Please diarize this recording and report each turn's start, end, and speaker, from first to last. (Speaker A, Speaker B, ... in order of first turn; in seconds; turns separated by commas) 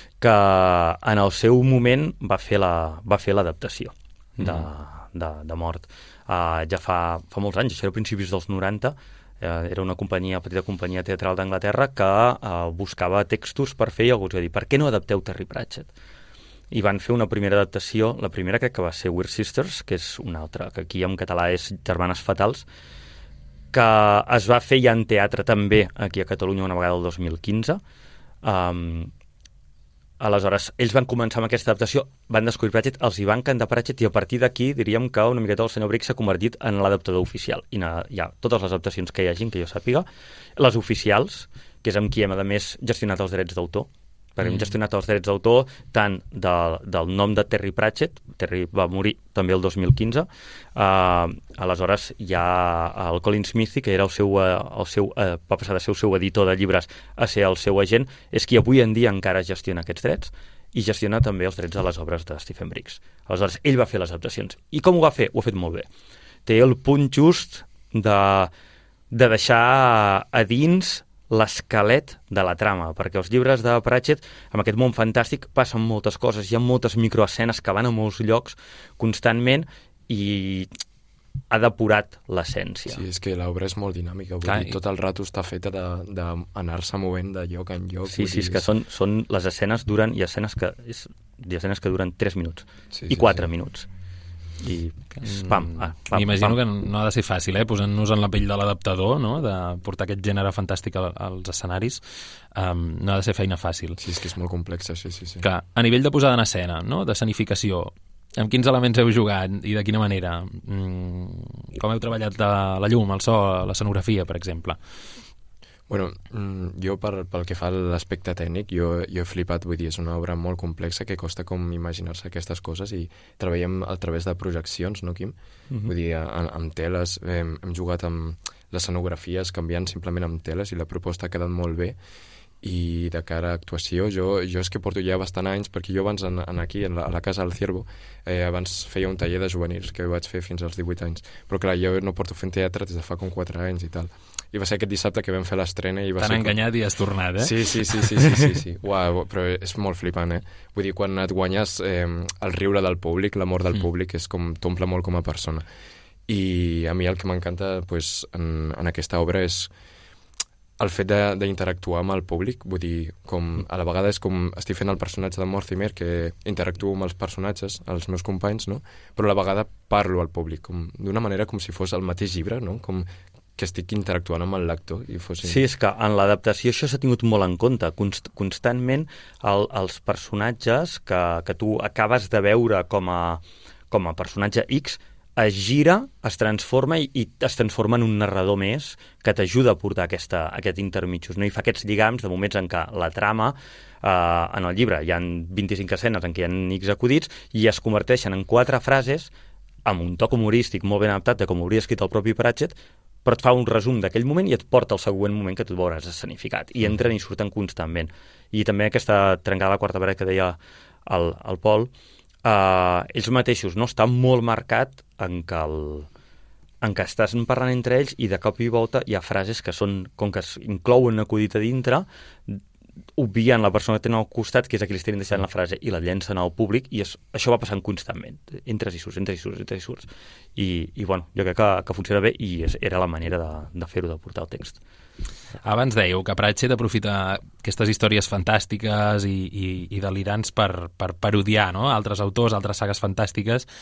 Speaker A: 0.2-15.9, Speaker A: 16.7-22.6, Speaker A: 23.7-27.8, Speaker A: 28.4-29.1, Speaker A: 30.2-40.1, Speaker A: 40.6-65.9, Speaker B: 44.4-44.7, Speaker A: 66.5-68.5, Speaker A: 69.1-80.7, Speaker A: 81.5-83.0, Speaker C: 82.9-88.7, Speaker B: 84.4-84.8, Speaker A: 88.1-93.9, Speaker C: 92.9-93.5, Speaker A: 94.6-96.6, Speaker B: 95.2-102.0, Speaker B: 102.5-104.0, Speaker C: 104.0-105.4, Speaker B: 105.4-114.8, Speaker C: 115.9-155.7, Speaker B: 146.2-147.5, Speaker C: 156.3-159.7, Speaker C: 160.8-175.6, Speaker A: 175.4-199.3, Speaker A: 199.9-211.9, Speaker A: 212.4-216.1, Speaker A: 216.8-222.6, Speaker A: 223.2-234.8, Speaker B: 235.6-243.7